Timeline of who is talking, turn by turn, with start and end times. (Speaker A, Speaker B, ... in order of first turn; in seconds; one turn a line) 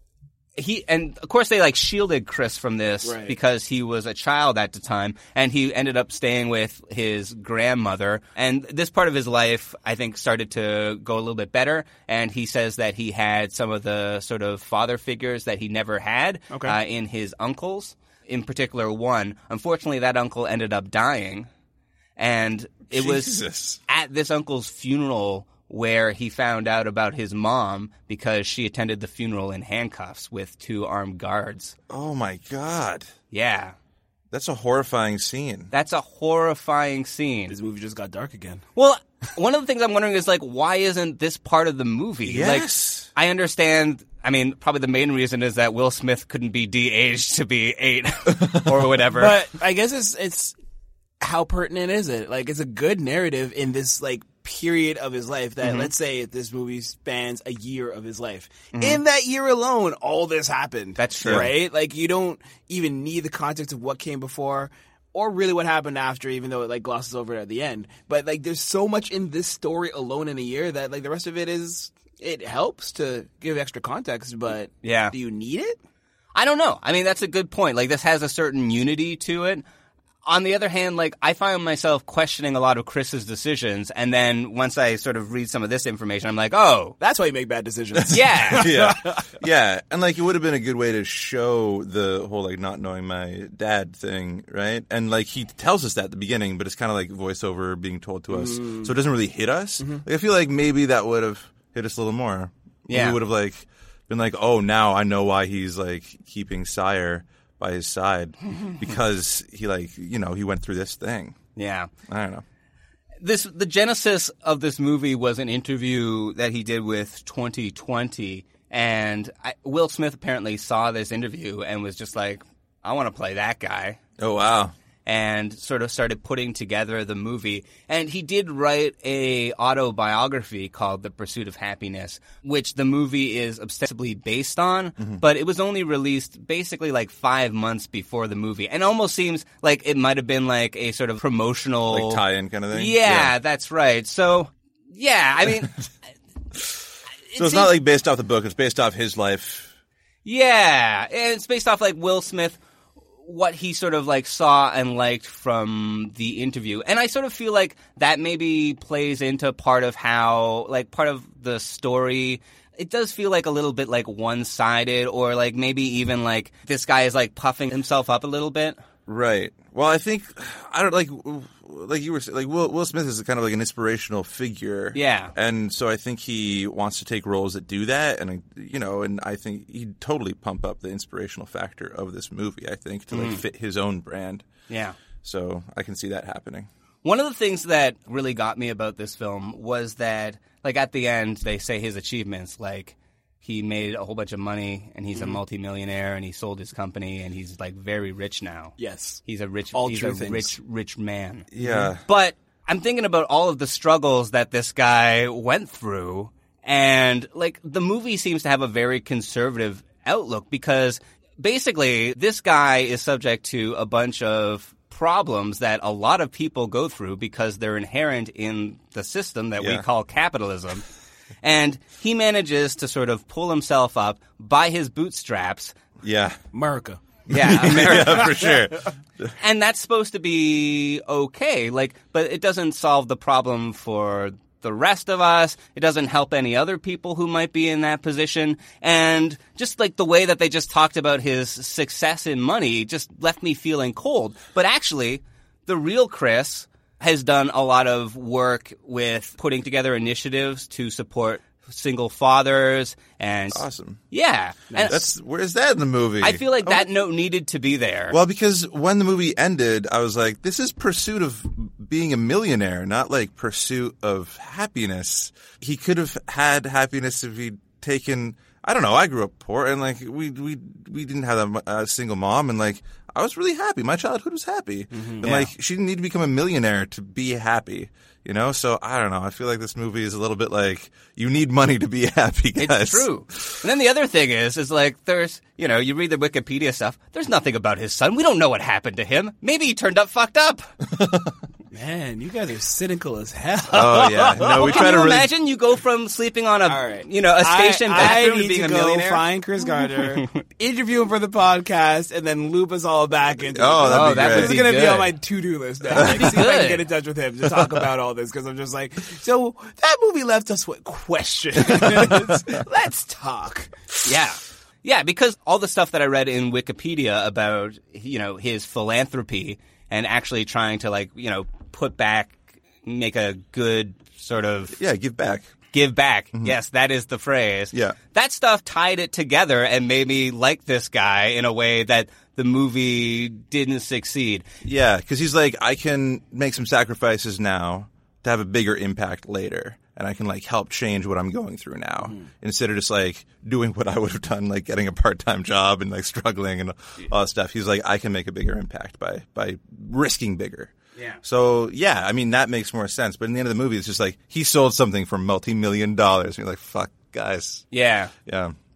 Speaker A: 0.6-21.5
Speaker B: 3.0-3.4
Speaker B: 16.5-16.8
Speaker A: 22.2-31.7
Speaker C: 22.9-23.8
Speaker C: 31.9-33.1
Speaker A: 33.3-33.8
Speaker C: 34.3-35.7
Speaker A: 35.7-37.5
Speaker B: 37.5-38.6
Speaker A: 38.8-49.4
Speaker C: 42.2-43.1
Speaker B: 49.1-50.5
Speaker B: 51.2-75.8
Speaker A: 55.6-55.9
Speaker A: 58.7-59.0
Speaker A: 61.0-61.5
Speaker C: 61.2-61.5
Speaker A: 74.8-75.1
Speaker A: 76.3-79.6
Speaker A: 80.2-87.0
Speaker B: 87.0-89.2
Speaker A: 88.1-88.7
Speaker C: 88.5-111.4
Speaker B: 98.3-98.9
Speaker A: 102.9-103.2
Speaker A: 111.5-111.9
Speaker C: 112.1-112.4
Speaker A: 113.2-124.0
Speaker C: 124.2-124.7
Speaker A: 125.0-145.7
Speaker C: 141.9-143.3
Speaker A: 147.3-147.7
Speaker C: 147.3-149.7
Speaker A: 150.2-152.6
Speaker A: 153.2-168.8
Speaker C: 169.1-184.4
Speaker A: 174.9-175.3
Speaker A: 183.1-183.4
Speaker A: 184.7-185.0
Speaker C: 185.2-186.7
Speaker A: 187.0-198.7
Speaker B: 198.8-200.6
Speaker A: 199.2-201.5
Speaker C: 201.5-202.0
Speaker A: 202.0-220.8
Speaker C: 219.6-219.8
Speaker A: 221.4-225.7
Speaker C: 226.0-226.4
Speaker B: 226.5-227.0
Speaker C: 227.3-229.3
Speaker A: 227.3-228.4
Speaker A: 229.4-255.0
Speaker C: 253.5-254.0
Speaker C: 254.8-256.9
Speaker A: 256.2-258.2
Speaker C: 258.1-283.6
Speaker B: 274.9-275.2
Speaker A: 275.2-275.5
Speaker A: 282.6-290.7
Speaker C: 290.8-291.3
Speaker B: 291.7-294.9
Speaker C: 293.7-295.3
Speaker A: 294.4-299.2
Speaker B: 296.6-313.7
Speaker C: 303.5-304.7
Speaker A: 303.9-305.1
Speaker A: 305.9-306.8
Speaker A: 314.0-324.8
Speaker C: 324.7-325.5
Speaker A: 325.7-334.4
Speaker C: 334.6-357.6
Speaker A: 357.7-358.1
Speaker C: 358.2-358.5